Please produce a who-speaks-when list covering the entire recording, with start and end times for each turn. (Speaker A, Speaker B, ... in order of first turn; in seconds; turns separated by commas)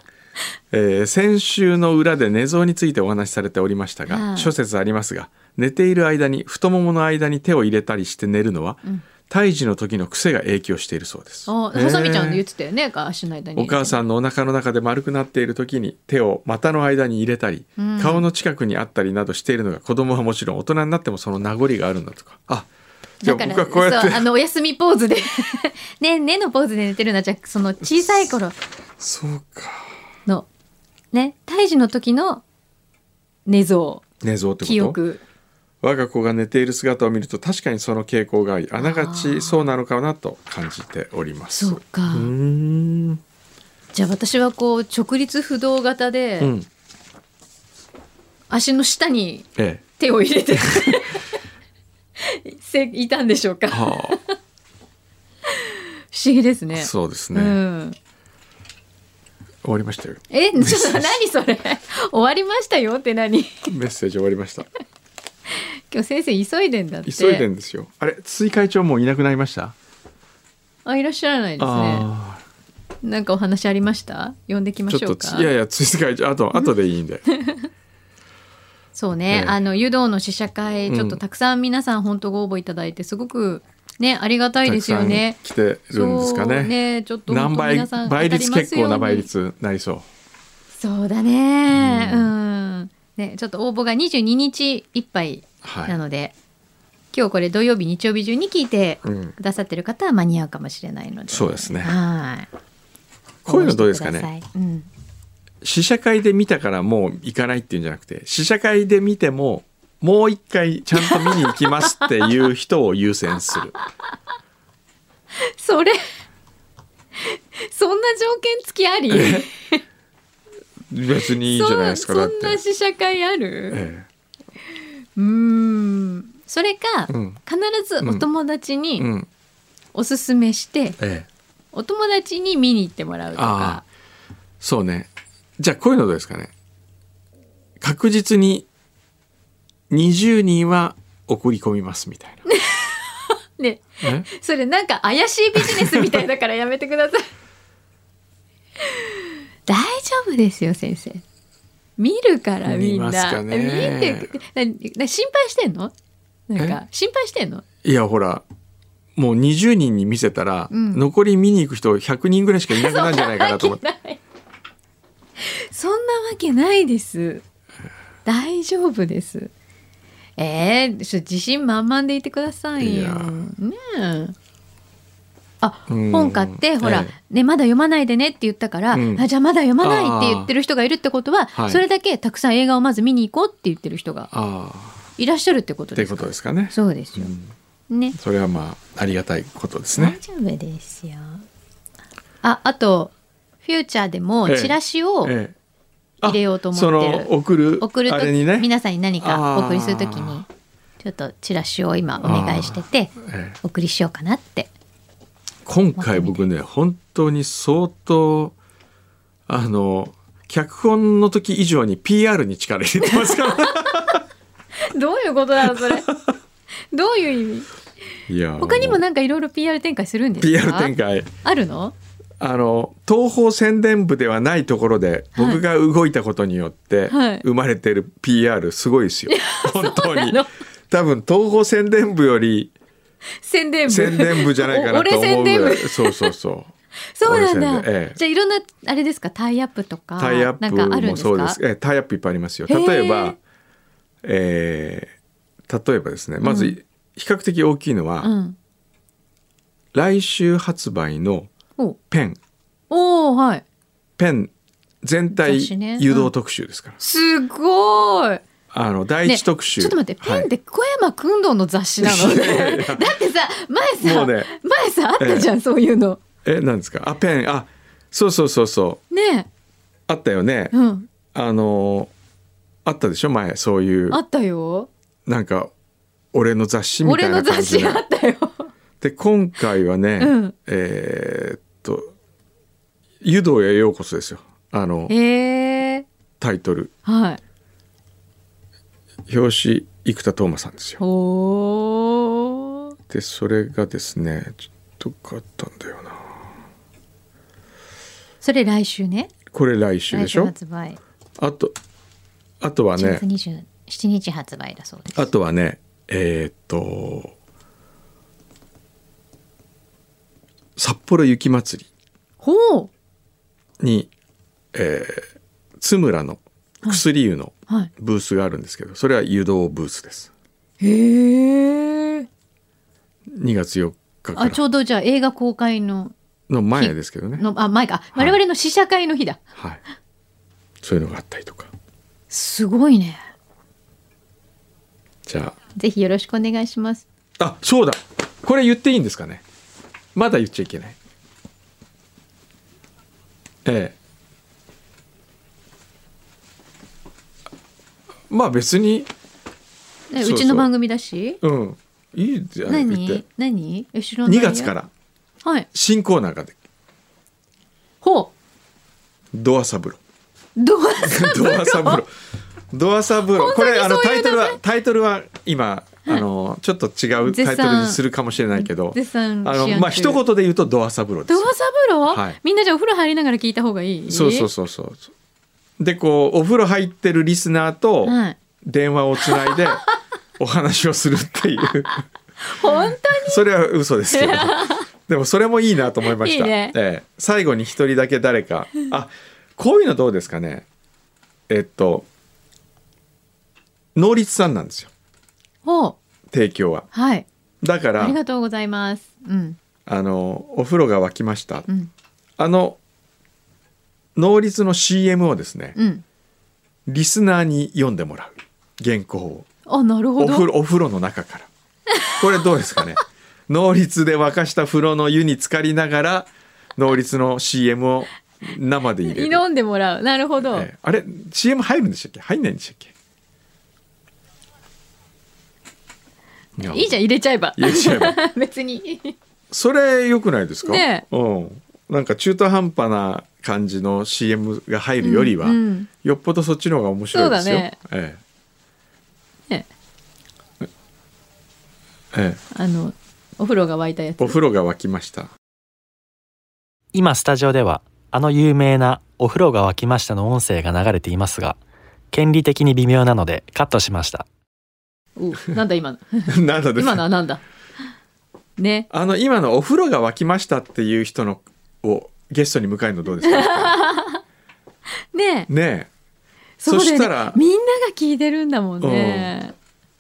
Speaker A: 0.7-12.4, Speaker B: 4.1-4.5, Speaker B: 11.5-14.0, Speaker A: 13.6-22.7, Speaker B: 17.8-18.3, Speaker A: 23.2-24.3, Speaker B: 23.2-28.6, Speaker A: 29.0-30.0, Speaker B: 31.1-32.4, Speaker B: 33.5-34.0, Speaker A: 34.2-35.0, Speaker B: 34.6-35.2, Speaker A: 35.8-43.2, Speaker B: 38.8-39.8, Speaker B: 41.5-42.3, Speaker B: 43.9-46.5, Speaker A: 46.4-46.7, Speaker B: 48.5-51.2, Speaker A: 49.6-49.8, Speaker B: 52.2-54.3, Speaker A: 53.7-54.2, Speaker B: 55.6-58.0, Speaker A: 56.7-57.6, Speaker A: 59.6-61.2, Speaker B: 60.3-63.5, Speaker A: 63.6-64.7, Speaker B: 65.9-67.5, Speaker A: 67.1-69.8, Speaker B: 70.8-72.1, Speaker A: 71.6-72.4, Speaker B: 73.0-75.5, Speaker A: 74.9-77.2, Speaker B: 77.3-77.6, Speaker B: 79.0-85.4, Speaker A: 79.3-79.6, Speaker A: 80.9-81.2, Speaker A: 84.6-86.8, Speaker B: 85.9-89.3, Speaker A: 87.3-90.1, Speaker B: 90.7-96.3, Speaker A: 91.7-92.3, Speaker A: 95.6-96.0, Speaker B: 97.1-102.5, Speaker A: 99.0-99.3, Speaker A: 101.3-102.0, Speaker A: 103.5-104.3, Speaker B: 103.5-104.9, Speaker A: 105.6-113.8, Speaker B: 111.0-111.6, Speaker B: 115.5-116.0, Speaker B: 117.2-119.8, Speaker A: 119.1-119.5, Speaker A: 120.9-122.6, Speaker B: 121.5-123.8, Speaker A: 123.7-124.1, Speaker B: 125.2-129.1, Speaker A: 127.1-127.4, Speaker A: 128.0-128.3, Speaker A: 129.0-129.3, Speaker B: 129.9-131.0, Speaker A: 131.0-131.3, Speaker B: 131.7-133.8, Speaker A: 133.3-133.8, Speaker A: 134.6-136.5, Speaker A: 137.8-138.7, Speaker A: 139.9-142.4, Speaker B: 142.5-143.0, Speaker B: 143.6-147.3, Speaker A: 144.0-144.3, Speaker A: 145.6-146.0, Speaker B: 149.7-151.2, Speaker B: 152.0-155.9, Speaker A: 152.6-154.4, Speaker B: 156.5-157.6, Speaker A: 157.8-158.4, Speaker A: 159.2-163.8, Speaker B: 160.7-161.1, Speaker B: 162.7-164.2, Speaker B: 165.4-167.4, Speaker B: 168.2-169.5, Speaker B: 170.4-174.3, Speaker A: 172.8-173.4, Speaker B: 175.6-184.3, Speaker A: 175.9-177.2, Speaker A: 178.9-179.3, Speaker A: 179.8-180.5, Speaker A: 181.6-181.8, Speaker A: 184.3-185.0, Speaker B: 185.2-187.3, Speaker A: 185.9-187.5, Speaker B: 187.9-188.2, Speaker A: 188.1-190.2, Speaker B: 189.9-191.4, Speaker B: 192.4-193.1, Speaker B: 193.6-195.3, Speaker A: 194.5-195.6, Speaker A: 196.2-200.4, Speaker B: 196.2-200.5, Speaker B: 201.0-204.7, Speaker A: 202.2-203.6, Speaker A: 205.7-208.6, Speaker B: 206.0-206.4, Speaker A: 209.5-214.2, Speaker B: 213.2-213.7, Speaker B: 214.9-216.1, Speaker A: 215.7-216.3, Speaker B: 216.9-217.7, Speaker A: 218.3-219.0, Speaker B: 218.6-221.9, Speaker A: 220.4-221.3, Speaker A: 222.4-232.7, Speaker B: 225.3-225.6, Speaker B: 227.1-227.4, Speaker B: 229.3-230.5, Speaker B: 233.4-236.3, Speaker A: 233.9-238.2, Speaker B: 237.1-241.6, Speaker A: 240.2-243.4, Speaker B: 242.7-243.4, Speaker A: 244.2-245.1, Speaker A: 245.7-248.3, Speaker B: 246.4-246.8, Speaker B: 248.2-248.6, Speaker A: 249.9-251.5, Speaker A: 252.1-252.4, Speaker B: 252.9-253.6, Speaker A: 254.2-257.0, Speaker B: 255.3-256.3, Speaker B: 257.0-258.4, Speaker A: 258.7-260.5, Speaker B: 259.2-266.2, Speaker A: 262.0-263.2, Speaker A: 264.0-264.5, Speaker A: 265.2-265.5, Speaker A: 266.4-269.0, Speaker B: 269.1-269.5, Speaker A: 270.1-270.8, Speaker B: 270.7-271.1, Speaker A: 271.3-272.1, Speaker A: 272.9-274.2, Speaker B: 274.1-274.9, Speaker A: 275.3-275.7, Speaker A: 276.3-278.0, Speaker B: 277.0-278.7, Speaker A: 279.0-282.1, Speaker B: 280.2-280.5, Speaker A: 283.2-285.1, Speaker B: 285.1-286.1, Speaker A: 286.4-286.9, Speaker B: 287.1-287.4, Speaker A: 289.3-291.0, Speaker B: 291.0-292.9, Speaker A: 293.1-296.4, Speaker B: 298.4-299.3, Speaker A: 299.5-300.5, Speaker B: 300.1-301.0, Speaker A: 301.4-301.8, Speaker A: 302.6-303.3, Speaker B: 303.0-305.3, Speaker A: 305.1-307.3, Speaker A: 310.8-311.9, Speaker B: 312.4-312.9, Speaker A: 313.8-314.1, Speaker A: 314.7-320.3, Speaker B: 320.8-322.3, Speaker A: 323.3-324.6, Speaker B: 324.4-326.1, Speaker A: 326.5-327.5, Speaker B: 326.8-329.4, Speaker A: 329.6-329.8, Speaker A: 330.8-331.7, Speaker B: 332.3-333.3, Speaker A: 335.3-335.6, Speaker B: 335.7-337.1, Speaker A: 337.4-339.4, Speaker A: 340.1-341.0, Speaker A: 343.6-344.0, Speaker A: 348.3-349.1, Speaker B: 350.1-351.4, Speaker A: 350.2-350.7, Speaker A: 351.4-353.2, Speaker B: 352.7-354.8, Speaker A: 354.2-354.9, Speaker B: 355.4-355.7, Speaker A: 355.7-356.6, Speaker B: 358.0-358.3, Speaker A: 359.3-360.0, Speaker B: 360.6-362.0, Speaker A: 361.0-362.1, Speaker A: 362.7-371.5, Speaker B: 363.3-364.6, Speaker B: 367.2-368.0, Speaker B: 368.5-370.2, Speaker B: 371.3-374.5, Speaker A: 372.1-372.4, Speaker A: 374.1-375.1, Speaker A: 375.8-379.9, Speaker B: 378.0-378.4, Speaker B: 379.3-379.6, Speaker A: 380.4-382.0, Speaker B: 382.4-383.4, Speaker A: 382.7-390.7, Speaker B: 384.1-384.9, Speaker B: 386.0-386.8, Speaker A: 391.5-392.1, Speaker A: 393.9-394.9, Speaker B: 395.6-396.0, Speaker A: 396.3-396.9, Speaker B: 396.9-397.3, Speaker A: 397.6-398.2, Speaker B: 398.0-399.6, Speaker A: 399.9-401.7, Speaker A: 402.4-402.8, Speaker A: 404.2-405.8, Speaker B: 405.8-406.0, Speaker A: 406.9-409.5, Speaker B: 409.7-410.5, Speaker A: 410.2-411.5, Speaker A: 412.1-419.4, Speaker B: 419.0-420.7, Speaker A: 420.4-422.9, Speaker A: 426.6-427.0, Speaker B: 426.7-429.1, Speaker A: 427.6-428.2, Speaker A: 429.5-438.2, Speaker B: 430.7-431.1, Speaker B: 435.0-435.9, Speaker B: 437.1-437.8, Speaker A: 442.1-442.4, Speaker B: 442.5-444.4, Speaker A: 444.2-445.3, Speaker C: 446.9-451.6, Speaker C: 452.1-454.3, Speaker B: 455.2-457.4, Speaker A: 456.3-457.1, Speaker B: 458.6-458.9, Speaker A: 458.9-463.9, Speaker B: 463.2-464.2, Speaker B: 465.1-465.5, Speaker A: 465.5-465.9, Speaker B: 466.6-469.5, Speaker A: 466.6-467.4, Speaker A: 468.8-469.4